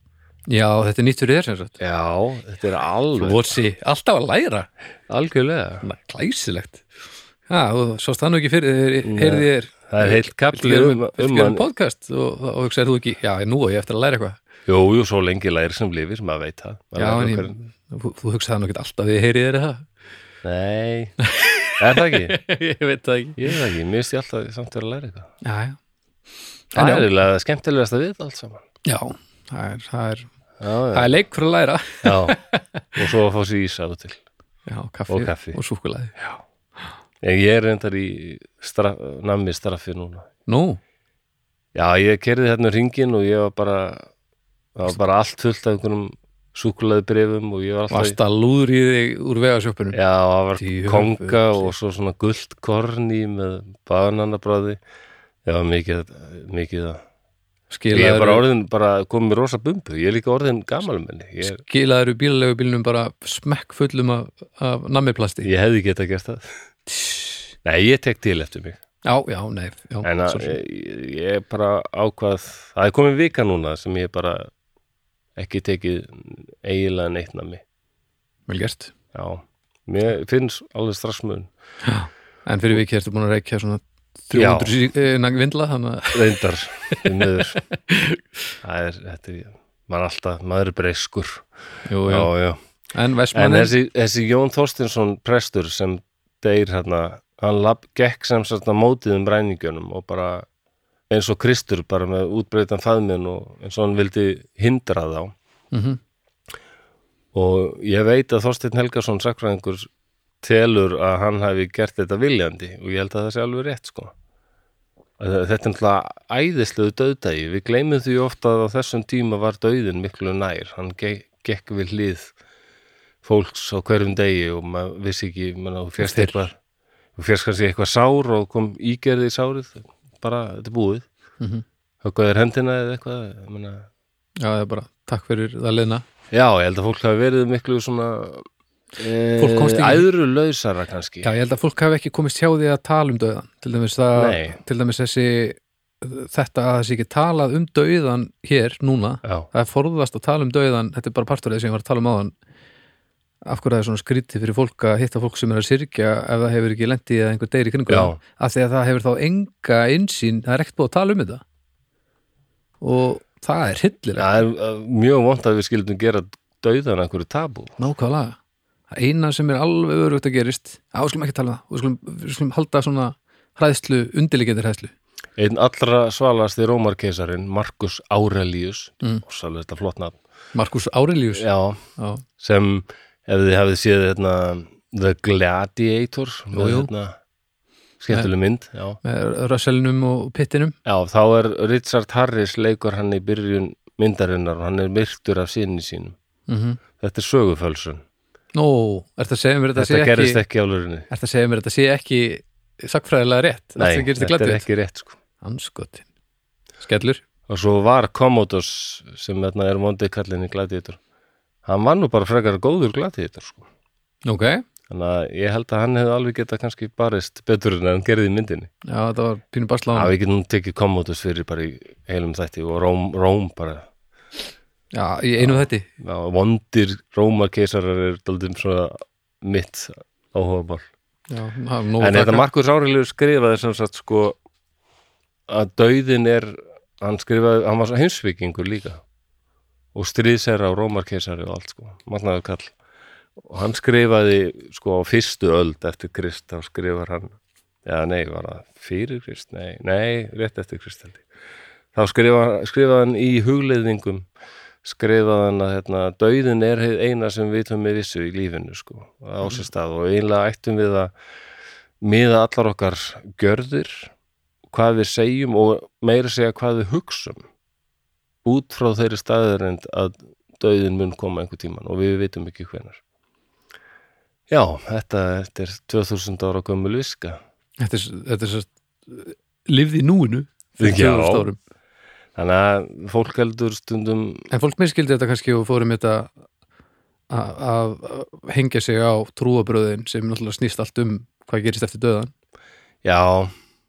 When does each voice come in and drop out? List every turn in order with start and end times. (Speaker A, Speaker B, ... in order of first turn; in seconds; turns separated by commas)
Speaker A: 0.5-1.8, Speaker B: 1.8-3.5, Speaker A: 3.2-4.7, Speaker B: 5.1-5.8, Speaker A: 5.8-6.8, Speaker A: 7.5-14.4, Speaker B: 9.0-11.6, Speaker B: 14.7-17.6, Speaker A: 17.0-19.9, Speaker B: 20.4-21.2, Speaker A: 21.2-23.5, Speaker B: 21.8-22.4, Speaker B: 23.4-25.3, Speaker A: 25.4-25.8, Speaker A: 26.7-27.1, Speaker B: 26.8-28.6, Speaker A: 28.9-30.3, Speaker B: 30.6-31.1, Speaker A: 30.9-33.0, Speaker B: 32.0-32.4, Speaker B: 33.0-34.2, Speaker A: 34.7-36.2, Speaker B: 35.1-35.6, Speaker B: 37.2-40.3, Speaker A: 40.5-40.8, Speaker B: 41.8-44.1, Speaker B: 44.8-48.2, Speaker A: 47.9-50.0, Speaker B: 49.9-54.8, Speaker A: 50.6-51.7, Speaker B: 55.5-57.0, Speaker A: 57.7-58.4, Speaker B: 57.9-61.6, Speaker A: 61.4-65.5, Speaker B: 65.4-66.5, Speaker A: 66.9-67.5, Speaker B: 67.7-68.8, Speaker A: 69.0-70.6, Speaker B: 70.0-74.5, Speaker B: 75.4-77.6, Speaker A: 78.5-78.9, Speaker B: 79.1-81.5, Speaker A: 81.8-86.4, Speaker B: 84.3-84.8, Speaker B: 86.1-87.6, Speaker A: 87.9-88.2, Speaker B: 88.6-91.5, Speaker A: 91.9-92.3, Speaker B: 92.0-92.6, Speaker A: 92.9-93.7, Speaker B: 93.3-100.5, Speaker B: 101.1-105.3, Speaker A: 105.7-106.0, Speaker B: 107.3-109.9, Speaker B: 110.4-114.1, Speaker B: 115.2-122.3, Speaker B: 123.2-126.6, Speaker A: 126.0-126.3, Speaker B: 127.2-131.1, Speaker B: 132.0-133.9, Speaker A: 134.4-136.0, Speaker B: 136.3-141.3, Speaker A: 139.4-140.1, Speaker A: 141.2-152.3, Speaker B: 144.2-144.6, Speaker A: 153.5-161.4, Speaker B: 157.9-158.2, Speaker A: 162.8-164.3, Speaker B: 164.2-167.8, Speaker A: 167.8-168.4, Speaker A: 168.9-174.9, Speaker B: 175.4-180.2, Speaker A: 180.5-182.2, Speaker B: 181.3-181.8, Speaker B: 182.4-187.2, Speaker A: 186.5-186.9, Speaker B: 188.0-189.0, Speaker A: 189.0-190.8, Speaker B: 190.8-196.2, Speaker A: 196.5-196.8, Speaker B: 197.0-198.0, Speaker A: 198.5-200.4, Speaker B: 199.8-201.1, Speaker A: 201.1-204.7, Speaker B: 203.8-205.2, Speaker A: 205.4-206.1, Speaker A: 206.8-207.2, Speaker B: 207.5-211.0, Speaker B: 211.7-213.7, Speaker A: 214.3-214.6, Speaker B: 214.9-218.7, Speaker A: 218.8-220.1, Speaker B: 219.9-223.9, Speaker A: 224.9-225.9, Speaker B: 225.4-230.9, Speaker A: 231.3-232.4, Speaker B: 232.0-234.4, Speaker B: 235.5-239.0, Speaker B: 239.9-242.7, Speaker B: 243.4-247.3, Speaker B: 247.9-251.2, Speaker B: 251.9-254.3, Speaker B: 254.8-261.1, Speaker B: 262.0-264.1, Speaker B: 264.7-267.4, Speaker B: 268.4-273.0, Speaker B: 274.5-277.4, Speaker A: 277.8-281.6, Speaker B: 280.8-281.5, Speaker B: 282.4-284.5, Speaker A: 284.5-286.3, Speaker A: 287.3-292.3, Speaker B: 293.0-293.5